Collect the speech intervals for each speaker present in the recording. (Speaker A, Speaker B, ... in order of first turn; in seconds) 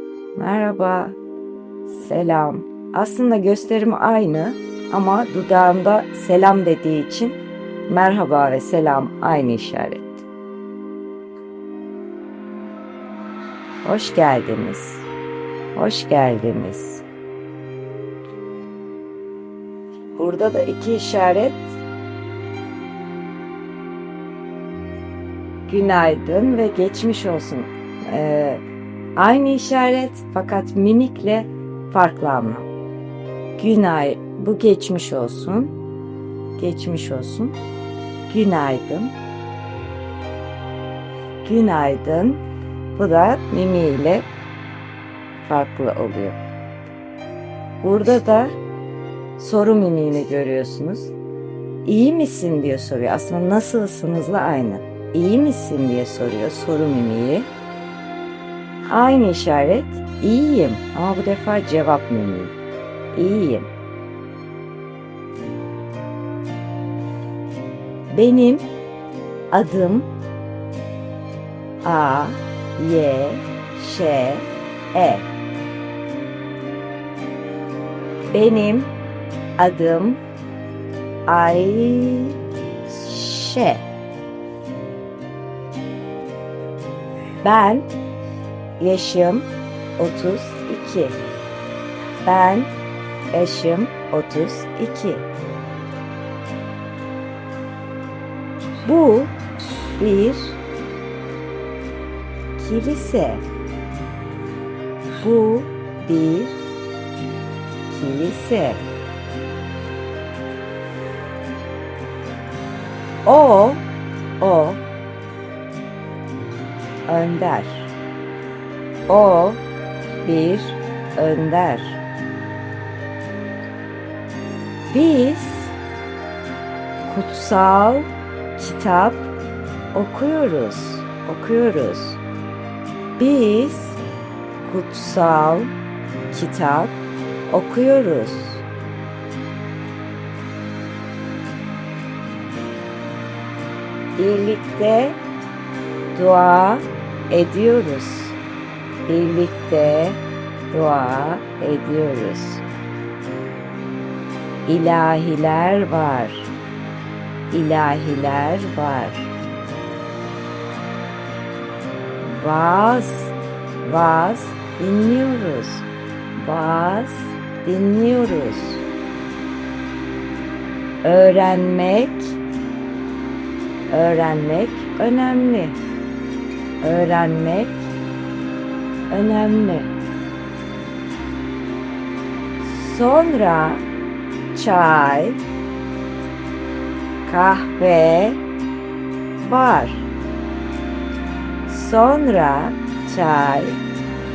Speaker A: 0.3-1.2, 1.9-7.4, 7.9-10.2, 13.8-15.0, 15.7-17.0, 20.1-21.6, 25.7-28.6, 29.1-32.7, 33.6-35.7, 36.6-37.5, 38.3-39.1, 41.4-42.4, 42.9-44.3, 45.4-46.4, 47.8-48.5, 49.4-51.1, 51.8-57.5, 58.9-62.5, 63.1-63.7, 68.1-68.7, 69.5-70.1, 71.8-75.3, 78.3-78.9, 79.6-80.2, 81.3-83.8, 87.4-87.9, 88.8-91.2, 92.2-92.7, 93.3-95.3, 98.8-100.6, 102.6-103.4, 105.2-106.6, 107.9-108.8, 113.2-113.8, 114.4-114.8, 117.1-117.9, 119.1-119.6, 120.2-122.0, 124.9-125.7, 127.0-129.3, 129.9-132.2, 133.2-134.0, 134.6-135.7, 136.3-136.9, 137.5-138.6, 144.2-145.2, 146.1-148.4, 149.1-152.6, 154.7-156.5, 157.5-159.3, 162.2-168.8, 171.0-172.4, 173.9-175.8, 176.8-177.9, 179.1-179.9, 182.6-183.8, 184.5-185.4, 187.2-188.4, 189.4-190.1, 191.7-193.8